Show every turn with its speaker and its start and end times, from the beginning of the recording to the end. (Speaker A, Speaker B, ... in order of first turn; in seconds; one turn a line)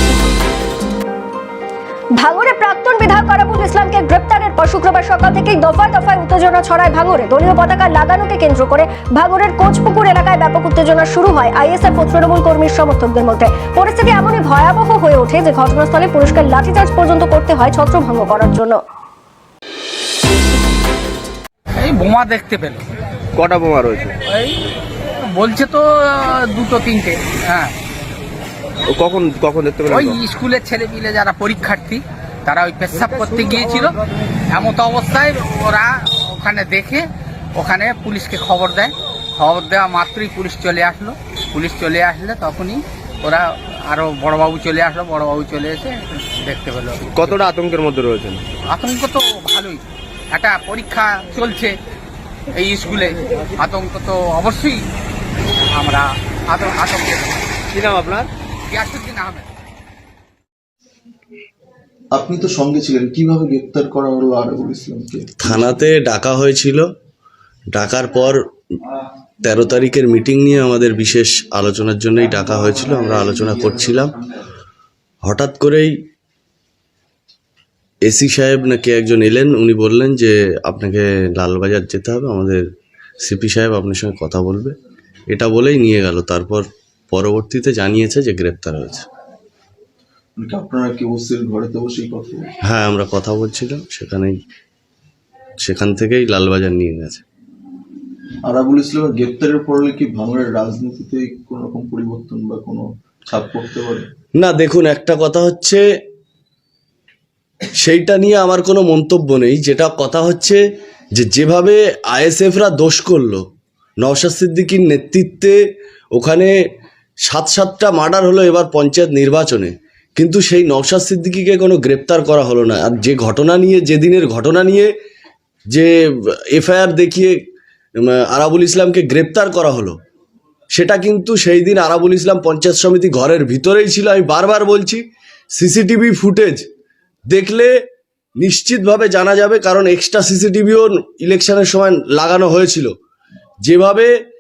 Speaker A: 2.2-18.8
Speaker B: 21.8-22.8
Speaker C: 23.3-24.2
Speaker B: 24.3-24.6
Speaker B: 25.3-27.8
Speaker C: 28.9-30.2
Speaker B: 29.9-34.0
Speaker B: 34.5-47.4
Speaker C: 47.1-48.4
Speaker B: 48.7-51.8
Speaker B: 52.5-54.9
Speaker B: 55.7-57.6
Speaker C: 57.7-58.3
Speaker B: 58.7-59.5
Speaker D: 62.1-65.7
Speaker E: 65.4-66.9
Speaker E: 67.7-68.4
Speaker E: 69.4-74.2
Speaker E: 75.2-75.9
Speaker E: 78.1-82.6
Speaker E: 83.2-84.7
Speaker E: 85.3-89.1
Speaker D: 90.4-92.5
Speaker E: 92.6-94.4
Speaker E: 95.6-97.2
Speaker D: 98.4-104.1
Speaker E: 104.4-105.8
Speaker E: 107.8-110.6
Speaker E: 111.2-113.4
Speaker E: 114.0-115.6
Speaker E: 116.2-116.5
Speaker E: 117.3-124.9
Speaker E: 125.7-127.4
Speaker E: 128.0-130.0
Speaker E: 130.7-135.0
Speaker E: 135.6-136.6
Speaker E: 137.3-137.7
Speaker E: 138.4-142.9
Speaker E: 143.6-144.1